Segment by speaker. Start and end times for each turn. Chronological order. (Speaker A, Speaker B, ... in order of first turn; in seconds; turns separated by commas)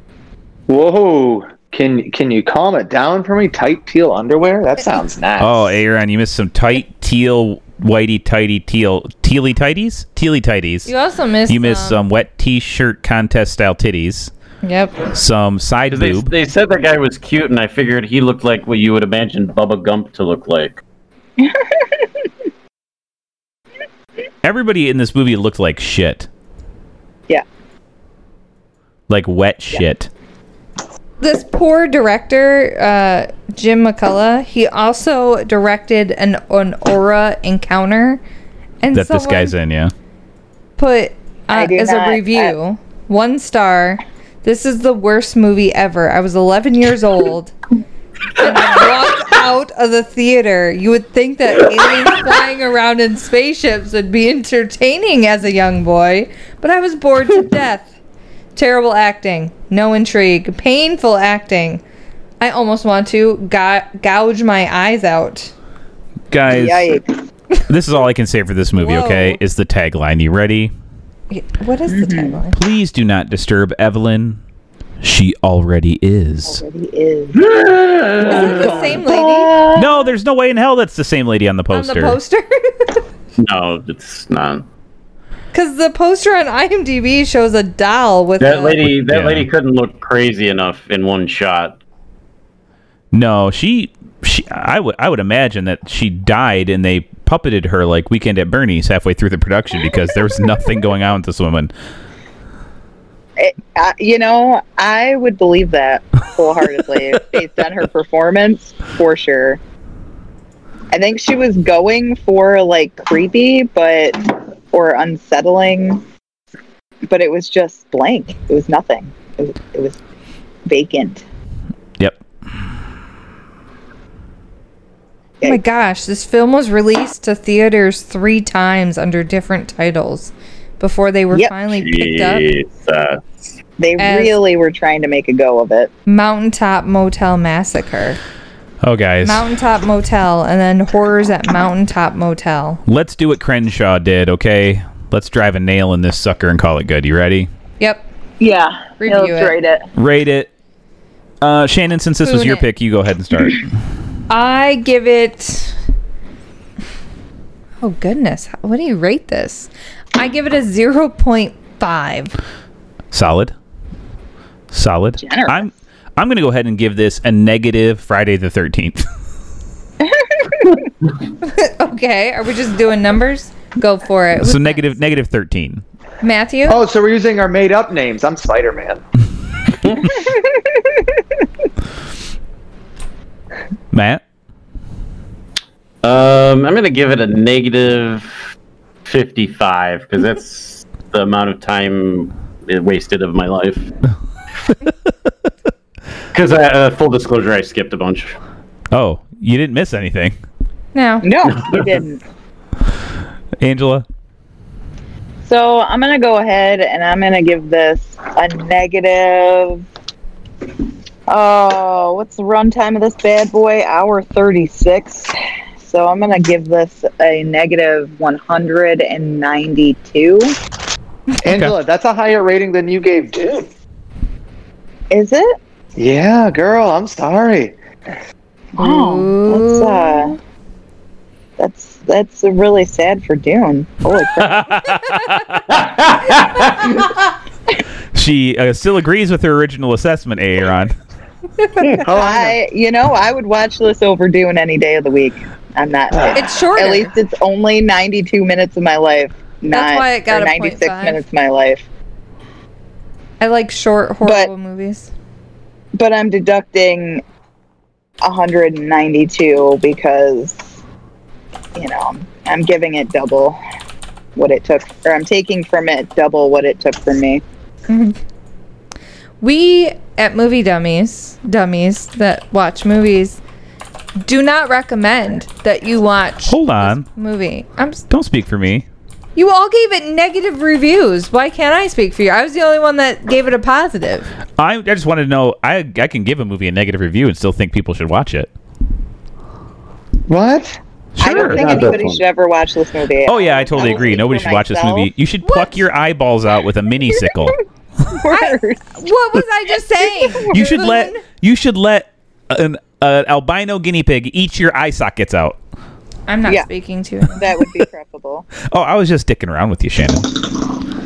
Speaker A: 0.7-5.8, Speaker B: 5.4-10.9, Speaker C: 10.8-12.0, Speaker B: 11.5-14.3, Speaker C: 14.6-15.1, Speaker B: 15.1-16.3, Speaker D: 15.9-20.8, Speaker E: 21.4-21.8, Speaker B: 24.4-26.3, Speaker B: 29.1-30.1, Speaker C: 31.2-38.2, Speaker C: 38.8-39.5, Speaker B: 38.9-39.9, Speaker C: 40.8-47.5, Speaker E: 41.5-42.5, Speaker C: 48.3-58.0, Speaker C: 58.5-61.8, Speaker C: 62.4-65.5, Speaker B: 66.3-67.0, Speaker E: 66.5-67.1, Speaker B: 67.7-70.7, Speaker C: 68.8-69.4, Speaker C: 71.3-72.6, Speaker E: 71.9-72.4, Speaker B: 72.5-74.4, Speaker B: 75.0-76.6, Speaker E: 76.5-77.4, Speaker D: 77.3-79.0, Speaker E: 78.2-80.1, Speaker C: 78.3-79.5, Speaker B: 79.7-82.2, Speaker C: 81.7-83.0, Speaker D: 83.4-84.7, Speaker C: 85.5-88.8, Speaker D: 88.4-91.8, Speaker B: 88.9-89.5, Speaker B: 93.1-101.7, Speaker E: 103.4-109.6, Speaker E: 110.9-116.0, Speaker E: 117.0-120.0, Speaker E: 120.7-121.2, Speaker C: 125.4-132.4, Speaker D: 131.7-133.6, Speaker E: 133.8-135.9, Speaker C: 134.0-134.3, Speaker C: 136.1-138.2, Speaker B: 138.8-139.4, Speaker C: 139.2-142.8, Speaker B: 142.9-147.5, Speaker E: 148.4-149.9, Speaker C: 149.0-149.5, Speaker B: 149.9-150.5, Speaker B: 151.4-153.7, Speaker C: 152.2-152.7, Speaker C: 154.3-155.7, Speaker C: 157.8-162.3, Speaker B: 163.1-163.5, Speaker B: 164.7-169.1, Speaker E: 165.2-165.7, Speaker E: 170.0-170.8, Speaker C: 171.4-174.9, Speaker B: 174.4-175.8, Speaker C: 176.2-176.8, Speaker A: 176.7-179.0, Speaker E: 180.2-181.1, Speaker B: 183.9-184.2, Speaker D: 186.0-188.4, Speaker D: 189.0-193.9, Speaker D: 196.3-198.4, Speaker B: 198.9-200.3, Speaker C: 200.9-201.3, Speaker E: 201.2-202.2, Speaker D: 201.5-202.0, Speaker B: 203.6-204.1, Speaker E: 205.4-209.8, Speaker E: 211.3-220.6, Speaker A: 221.4-223.7, Speaker E: 225.1-225.6, Speaker A: 225.9-227.8, Speaker E: 228.7-230.3, Speaker C: 228.8-230.4, Speaker E: 231.6-235.0, Speaker B: 234.4-235.7, Speaker D: 235.7-236.9, Speaker B: 238.1-240.9, Speaker C: 241.6-242.1, Speaker A: 242.0-242.6, Speaker E: 242.1-251.9, Speaker C: 246.3-247.1, Speaker C: 249.7-251.2, Speaker C: 253.4-255.1, Speaker E: 254.2-254.5, Speaker E: 255.9-257.2, Speaker E: 258.2-260.8, Speaker E: 261.8-263.6, Speaker E: 264.4-267.4, Speaker C: 267.9-268.2, Speaker C: 269.4-273.4, Speaker C: 274.2-278.0, Speaker B: 276.5-277.1, Speaker B: 278.1-278.9, Speaker C: 279.4-284.3, Speaker B: 284.6-288.5, Speaker A: 290.3-290.8, Speaker B: 291.1-291.9, Speaker E: 291.2-295.1, Speaker D: 291.3-292.2, Speaker B: 293.2-297.6, Speaker E: 298.1-298.9, Speaker C: 298.3-301.2, Speaker B: 300.5-305.6, Speaker C: 306.3-307.5, Speaker E: 307.3-308.5, Speaker B: 308.7-310.3